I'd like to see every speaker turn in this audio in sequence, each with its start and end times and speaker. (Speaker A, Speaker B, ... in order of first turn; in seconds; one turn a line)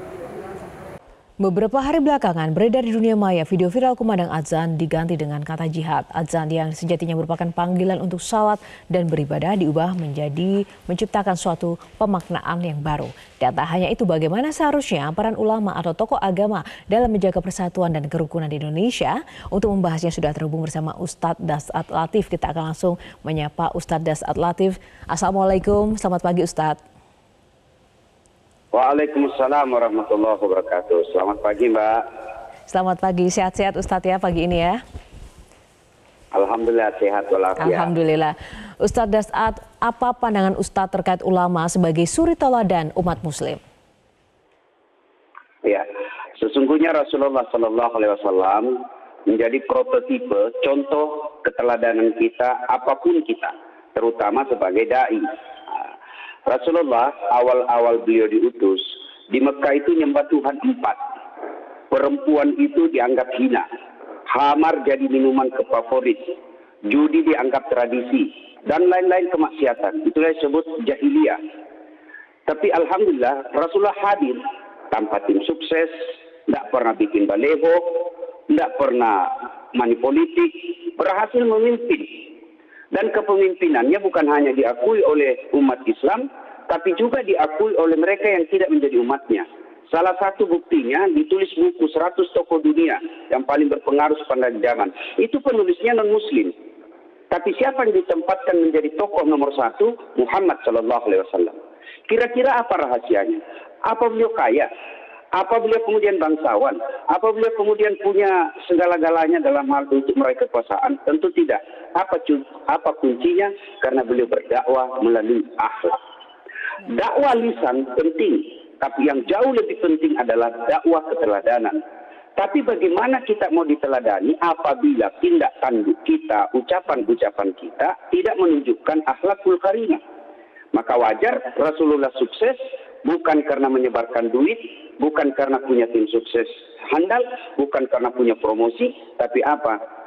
Speaker A: 1.4-26.8
Speaker B: 28.7-32.0
Speaker A: 32.7-34.8
Speaker B: 36.3-37.9
Speaker A: 37.6-43.6
Speaker B: 45.6-55.8
Speaker B: 56.5-61.0
Speaker B: 61.9-63.6
Speaker B: 64.3-66.4
Speaker B: 66.9-71.4
Speaker B: 72.5-82.3
Speaker B: 82.9-96.5
Speaker B: 97.3-104.7
Speaker B: 105.3-116.0
Speaker B: 116.8-121.8
Speaker B: 122.4-130.0
Speaker B: 130.7-139.8